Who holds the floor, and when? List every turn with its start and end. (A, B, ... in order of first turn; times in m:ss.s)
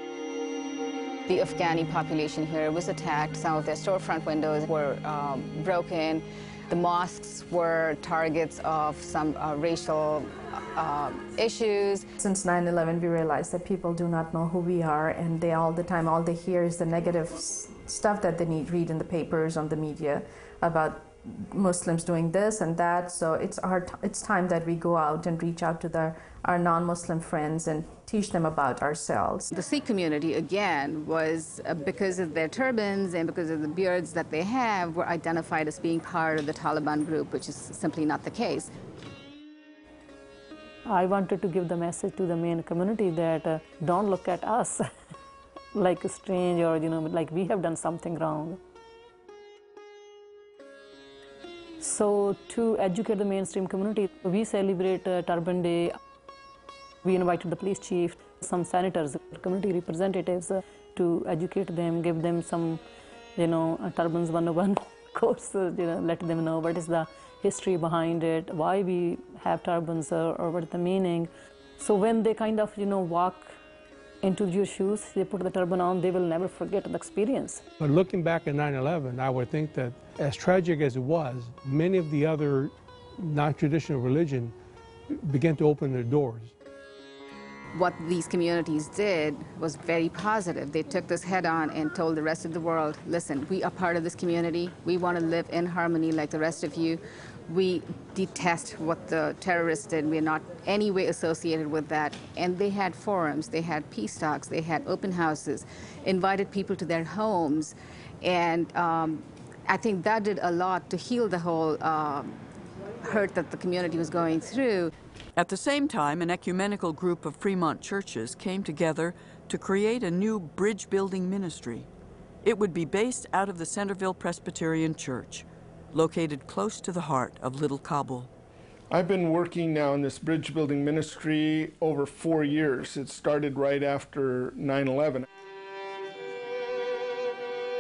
0:01.3-0:12.1 A
0:12.2-0:29.5 B
0:29.5-0:38.7 A
0:40.9-0:44.8 C
0:45.8-0:48.6 C
0:51.8-0:56.0 C
0:57.0-1:02.8 C
1:03.4-1:13.6 C
1:14.2-1:17.6 C
1:17.8-1:24.5 D
1:25.1-1:26.5 D
1:27.7-1:52.4 A
1:53.0-1:54.9 A
1:55.4-2:01.9 E
2:02.4-2:08.3 E
2:08.9-2:15.2 F